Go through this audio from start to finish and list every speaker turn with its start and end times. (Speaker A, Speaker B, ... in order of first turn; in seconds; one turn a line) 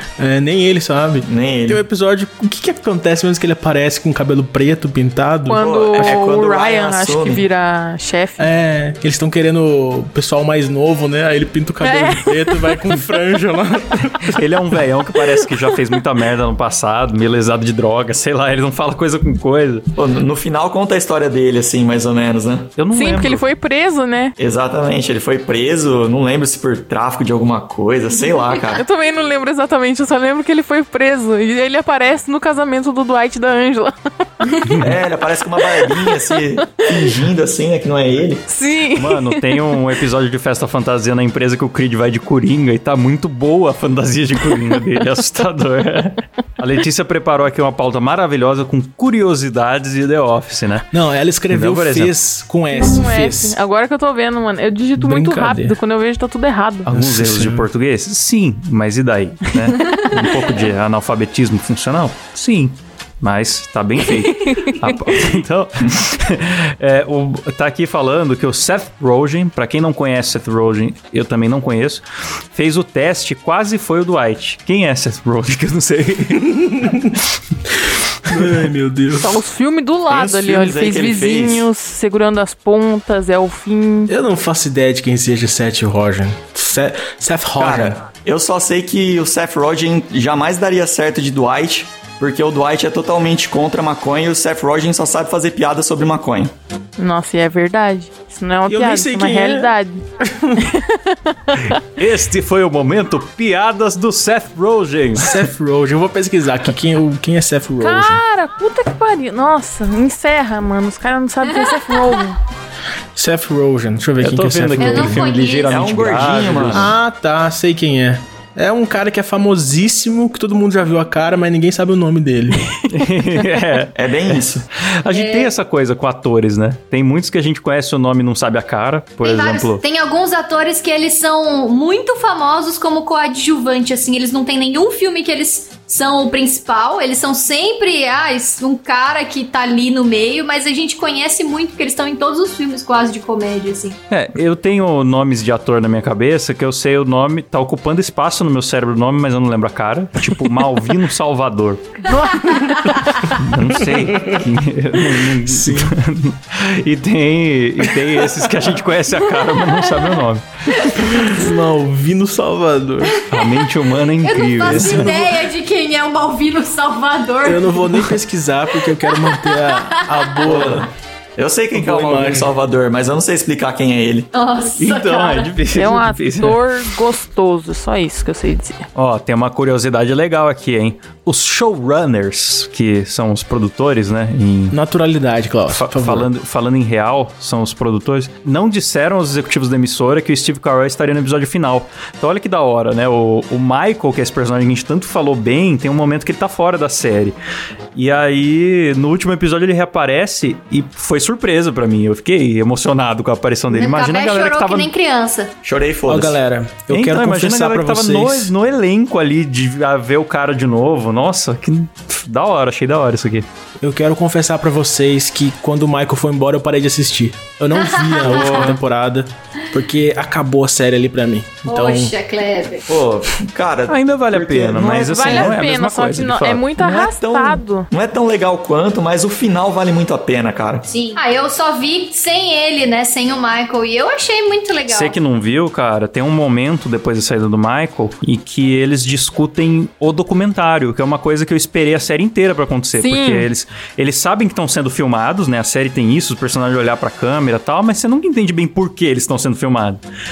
Speaker A: 0.2-6.2
Speaker B: 1.3-1.8
Speaker C: 5.5-8.5
Speaker B: 5.5-7.5
Speaker A: 8.4-14.5
Speaker C: 11.8-12.8
Speaker D: 14.2-19.9
Speaker B: 19.9-22.7
Speaker D: 22.8-23.4
Speaker C: 22.9-24.4
Speaker B: 24.4-28.8
Speaker C: 28.7-34.8
Speaker A: 34.6-34.9
Speaker B: 34.8-38.5
Speaker C: 35.8-36.4
Speaker C: 38.5-39.5
Speaker D: 39.0-50.9
Speaker A: 50.9-53.6
Speaker D: 51.5-52.1
Speaker C: 52.7-56.9
Speaker A: 55.0-55.8
Speaker D: 56.9-76.7
Speaker A: 56.9-57.7
Speaker E: 59.9-60.2
Speaker C: 64.3-64.9
Speaker A: 76.6-77.2
Speaker A: 78.2-79.4
Speaker C: 79.1-84.1
Speaker B: 80.1-81.7
Speaker A: 84.1-88.0
Speaker B: 87.6-96.5
Speaker C: 97.0-100.0
Speaker A: 98.7-100.6
Speaker C: 100.6-101.8
Speaker D: 101.9-105.4
Speaker A: 105.2-108.2
Speaker C: 107.8-112.4
Speaker E: 111.6-111.9
Speaker A: 113.2-115.2
Speaker D: 114.2-116.9
Speaker E: 114.8-115.9
Speaker B: 115.7-116.9
Speaker A: 116.7-122.7
Speaker D: 122.9-129.8
Speaker B: 124.0-124.6
Speaker E: 125.1-125.5
Speaker E: 129.2-144.0
Speaker D: 144.1-152.3
Speaker C: 152.1-152.9
Speaker D: 153.2-161.1
Speaker A: 153.8-154.4
Speaker A: 155.2-156.0
Speaker A: 161.1-163.2
Speaker E: 163.2-163.6
Speaker D: 163.3-165.2
Speaker E: 164.2-168.0
Speaker A: 164.6-165.3
Speaker A: 167.4-170.9
Speaker E: 168.9-170.4
Speaker B: 170.4-174.3
Speaker A: 171.7-172.5
Speaker E: 174.3-175.5
Speaker D: 174.8-176.6
Speaker C: 175.8-178.9
Speaker D: 179.0-184.8
Speaker A: 184.7-186.3
Speaker D: 185.7-197.3
Speaker D: 197.9-204.9
Speaker E: 203.7-205.5
Speaker B: 205.6-206.4
Speaker A: 206.1-208.5
Speaker D: 206.9-213.5
Speaker A: 213.8-222.1
Speaker E: 217.8-218.8
Speaker D: 218.2-218.8
Speaker E: 221.7-222.9
Speaker B: 222.9-225.6
Speaker D: 223.9-226.7
Speaker C: 225.1-227.9
Speaker B: 226.8-230.9
Speaker E: 230.9-235.2
Speaker D: 234.9-250.0
Speaker C: 242.9-243.5